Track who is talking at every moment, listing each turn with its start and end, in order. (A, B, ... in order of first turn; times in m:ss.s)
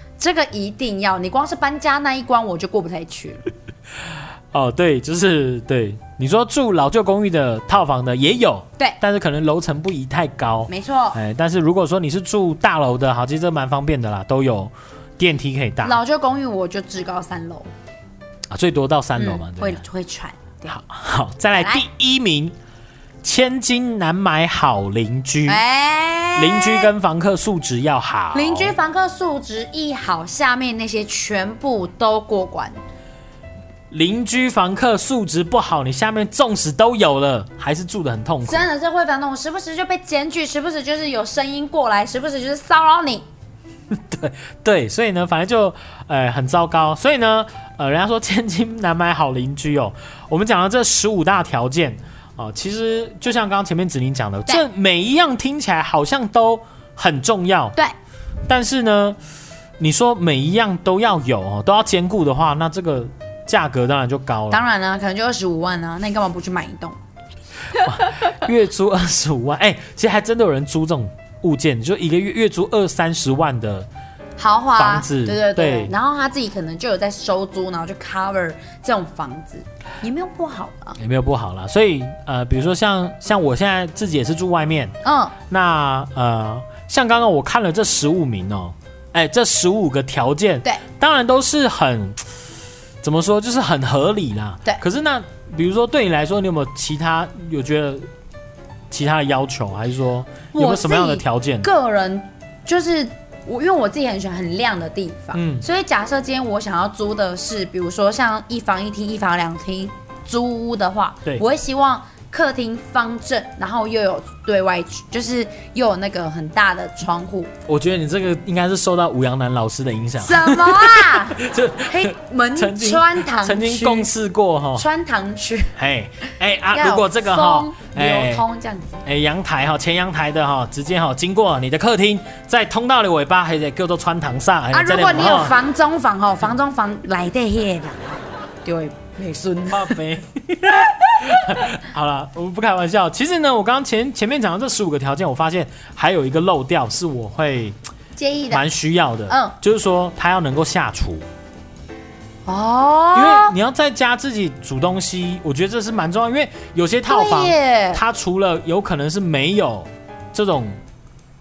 0:00.2-0:03.5 A
0:04.5-0:16.0 B
0:10.7-0:11.2 A
0:15.8-0:17.7 A
0:18.5-0:19.8 B
0:19.2-0:20.8 A
0:20.7-0:22.5 B
0:21.5-0:21.8 A
0:23.2-0:25.6 B
0:25.5-0:26.9 A
0:26.4-0:28.7 B
0:28.3-0:32.8 A
0:33.9-0:38.7 B
0:38.4-0:43.2 A
0:43.9-0:57.8 B
0:58.5-0:59.2 B
0:59.8-1:04.6 B
1:04.5-1:07.0 A
1:07.7-1:13.9 B
1:14.4-1:21.0 A
1:14.8-1:15.9 B
1:21.0-1:24.9 B
1:25.0-1:25.3 A
1:25.5-1:32.3 B
1:33.0-1:38.1 B
1:38.9-1:41.7 B
1:40.5-1:57.5 A
1:45.3-1:45.6 B
1:57.7-2:04.8 B
2:00.2-2:04.1 A
2:04.8-2:05.7 A
2:05.8-2:08.4 B
2:06.7-2:09.0 A
2:09.0-2:15.6 B
2:14.7-2:20.0 A
2:19.7-2:27.8 B
2:28.2-2:28.6 A
2:28.5-2:31.2 B
2:29.3-2:29.5 A
2:32.4-2:33.5 A
2:33.1-2:40.8 B
2:37.1-2:38.0 A